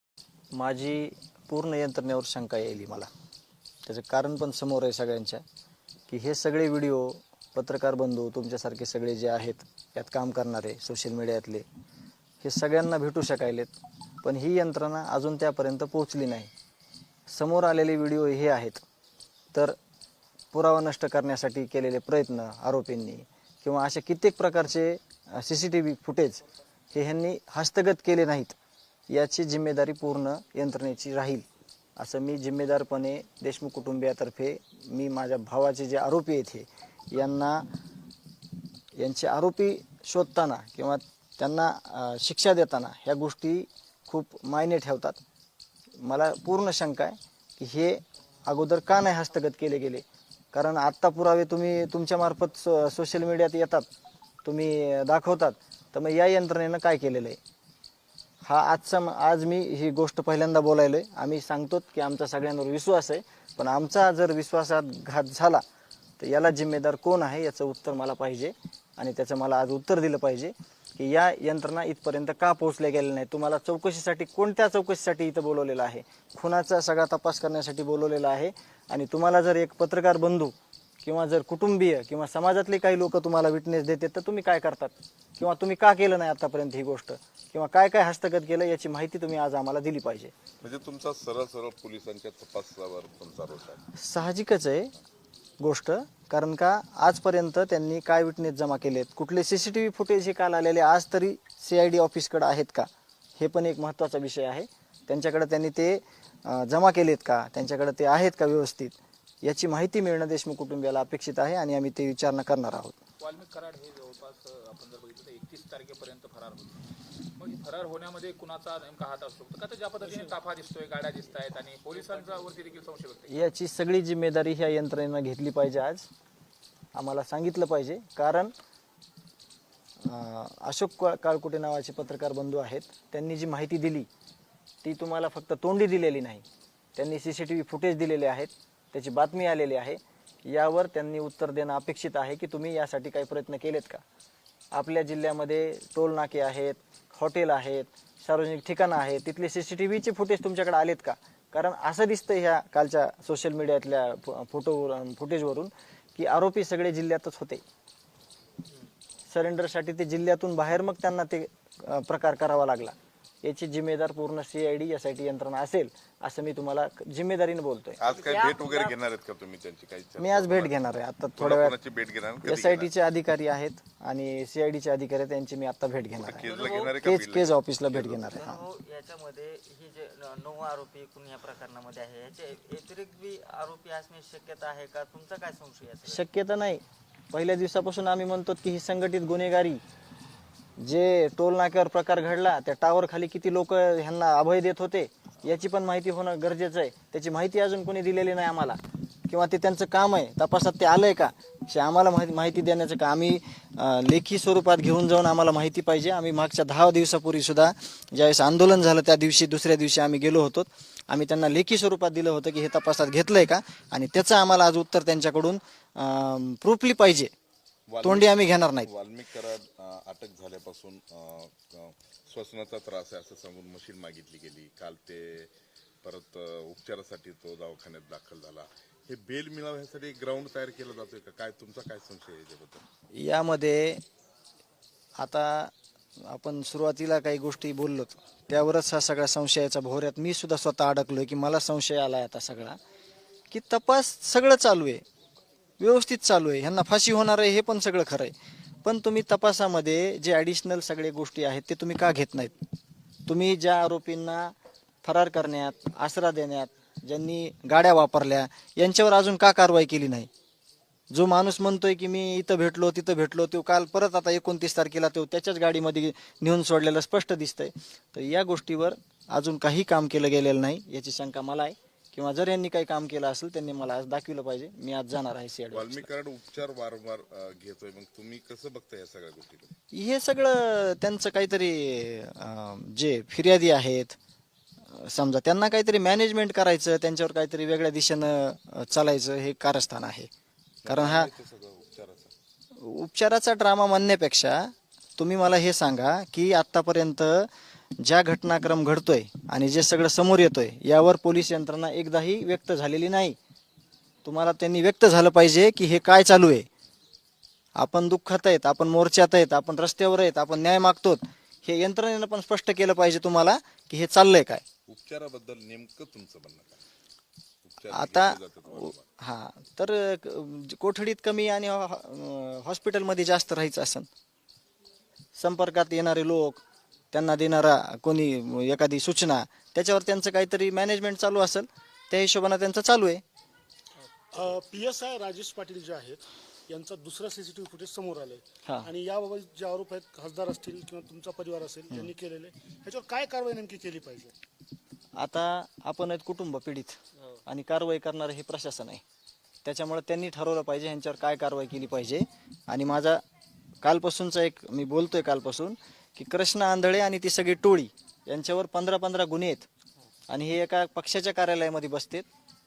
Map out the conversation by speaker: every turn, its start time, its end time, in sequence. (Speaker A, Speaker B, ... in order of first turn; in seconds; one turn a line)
Speaker A: 0.5-3.1
Speaker A: 3.9-5.4
Speaker A: 6.1-11.6
Speaker A: 12.4-16.5
Speaker A: 17.3-18.8
Speaker A: 20.5-26.4
Speaker A: 26.9-28.6
Speaker A: 29.1-31.4
Speaker A: 32.0-37.7
Speaker A: 39.0-45.2
Speaker A: 46.0-53.8
Speaker A: 54.4-57.4
Speaker A: 58.4-65.6
Speaker A: 66.2-90.3
Speaker B: 90.6-93.8
Speaker A: 94.0-94.9
Speaker A: 95.6-113.0
Speaker C: 113.2-116.8
Speaker C: 117.4-123.4
Speaker A: 123.3-126.1
Speaker A: 126.9-128.5
Speaker A: 130.0-134.1
Speaker A: 134.8-136.4
Speaker A: 136.9-144.0
Speaker A: 144.7-157.6
Speaker D: 158.7-158.9
Speaker A: 159.3-168.0
Speaker B: 168.0-170.7
Speaker D: 168.1-169.0
Speaker A: 170.2-171.8
Speaker B: 171.3-172.9
Speaker A: 172.4-178.5
Speaker B: 176.2-178.4
Speaker D: 176.5-176.9
Speaker D: 178.3-186.2
Speaker A: 186.1-189.8
Speaker A: 190.8-198.8
Speaker A: 199.3-217.3
Speaker B: 217.9-225.5
Speaker A: 218.0-218.9
Speaker B: 226.0-232.8
Speaker A: 233.2-234.0
Speaker A: 235.2-235.7
Speaker A: 236.2-242.8
Speaker A: 243.5-245.0
Speaker A: 245.8-248.3
Speaker A: 248.8-252.5
Speaker A: 253.3-260.3
Speaker A: 261.1-276.1
Speaker B: 275.7-279.7
Speaker A: 279.9-284.2
Speaker A: 284.9-290.3
Speaker B: 290.8-292.3
Speaker A: 290.9-291.3
Speaker A: 292.8-297.5
Speaker A: 298.0-303.4
Speaker A: 304.2-306.6
Speaker A: 307.8-314.6
Speaker B: 314.9-316.8
Speaker B: 317.6-319.1
Speaker A: 317.9-324.1
Speaker A: 325.4-333.2
Speaker E: 334.3-344.3
Speaker A: 345.2-349.0
Speaker A: 349.6-353.2
Speaker A: 353.8-359.7
Speaker A: 360.3-362.3